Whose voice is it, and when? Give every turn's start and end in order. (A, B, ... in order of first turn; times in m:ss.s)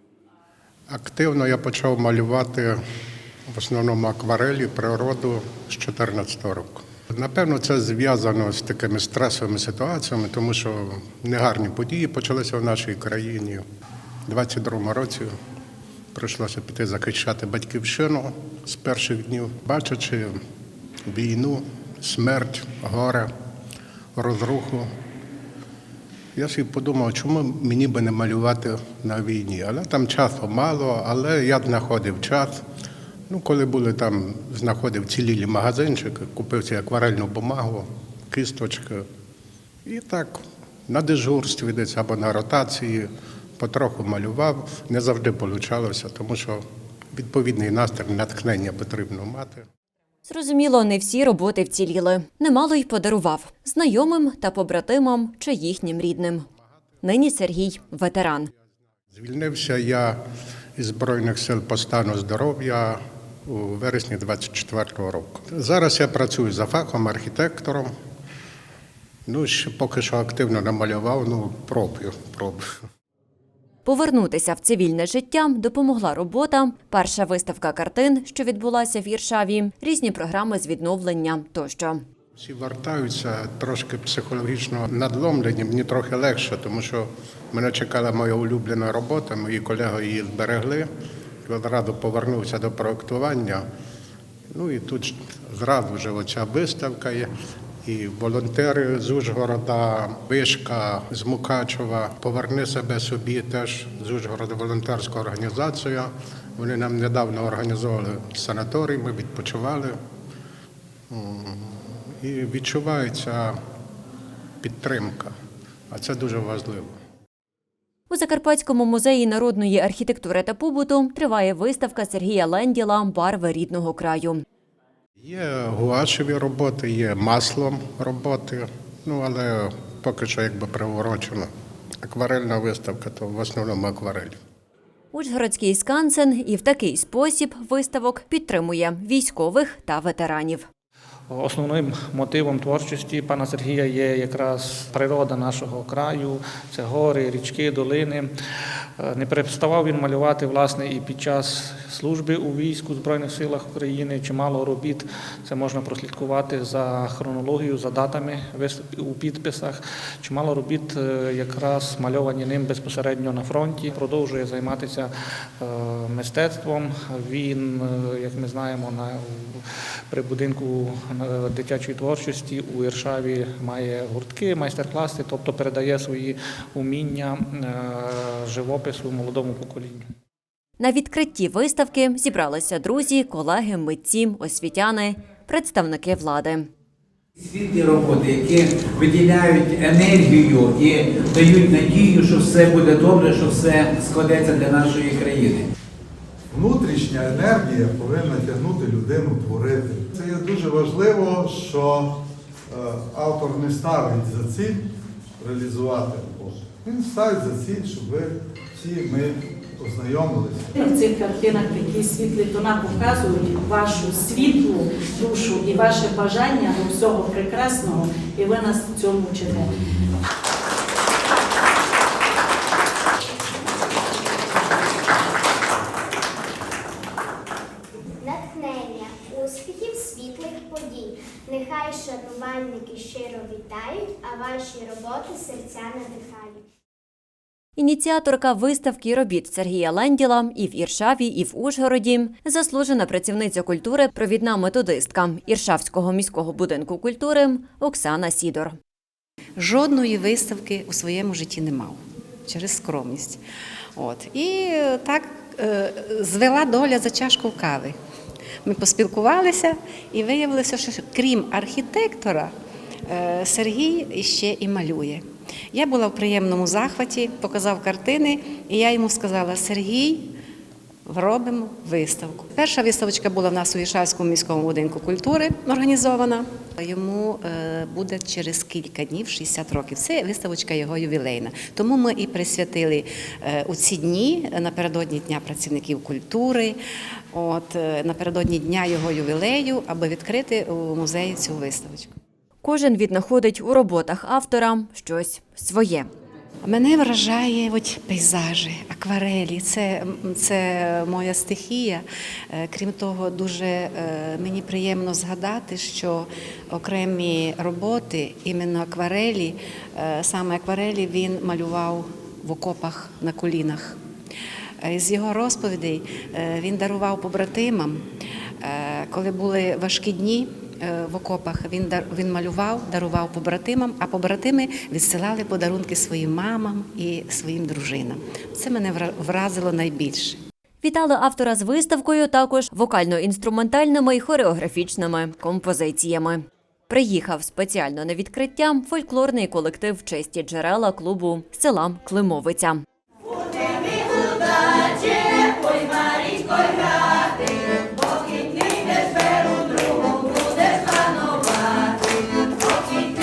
0:00.9-0:02.8 A
0:03.5-0:13.6 A
0:14.2-0:15.3 A
0:16.1-0:20.4 A
0:21.1-0:23.3 A
0:24.2-0:24.9 A
0:26.4-0:32.6 A
0:33.3-0:39.1 A
0:39.8-0:46.6 A
0:47.1-0:49.7 A
0:50.2-0:56.4 B
0:57.0-0:58.5 B
0:59.1-1:00.2 A
1:00.8-1:07.9 A
1:09.3-1:12.7 A
1:13.8-1:22.0 B
1:22.4-1:30.9 A
1:31.4-1:33.7 A
1:34.5-1:37.3 A
1:37.8-1:50.0 A
1:51.1-1:53.6 A
1:54.6-1:55.3 A
1:55.9-1:57.0 A
1:58.1-2:04.4 B
2:05.2-2:11.5 A
2:12.0-2:14.4 A
2:15.1-2:20.7 B
2:21.3-2:28.3 C
2:29.0-3:00.1 C
3:00.8-3:06.7 B
3:07.4-3:15.7 D
3:16.5-3:22.2 E
3:22.7-3:24.8 E
3:25.4-3:30.7 E
3:30.8-3:39.7 F
3:48.2-3:56.6 G
3:57.8-4:08.8 B
4:09.6-4:13.4 H
4:14.0-4:18.0 H
4:18.6-4:22.5 H
4:23.1-4:30.3 H
4:31.1-4:46.8 H
4:47.3-4:52.2 H
4:52.6-4:56.1 B
4:56.6-5:14.0 H
5:14.8-5:18.1 H
5:18.6-5:30.4 H
5:30.8-5:42.8 B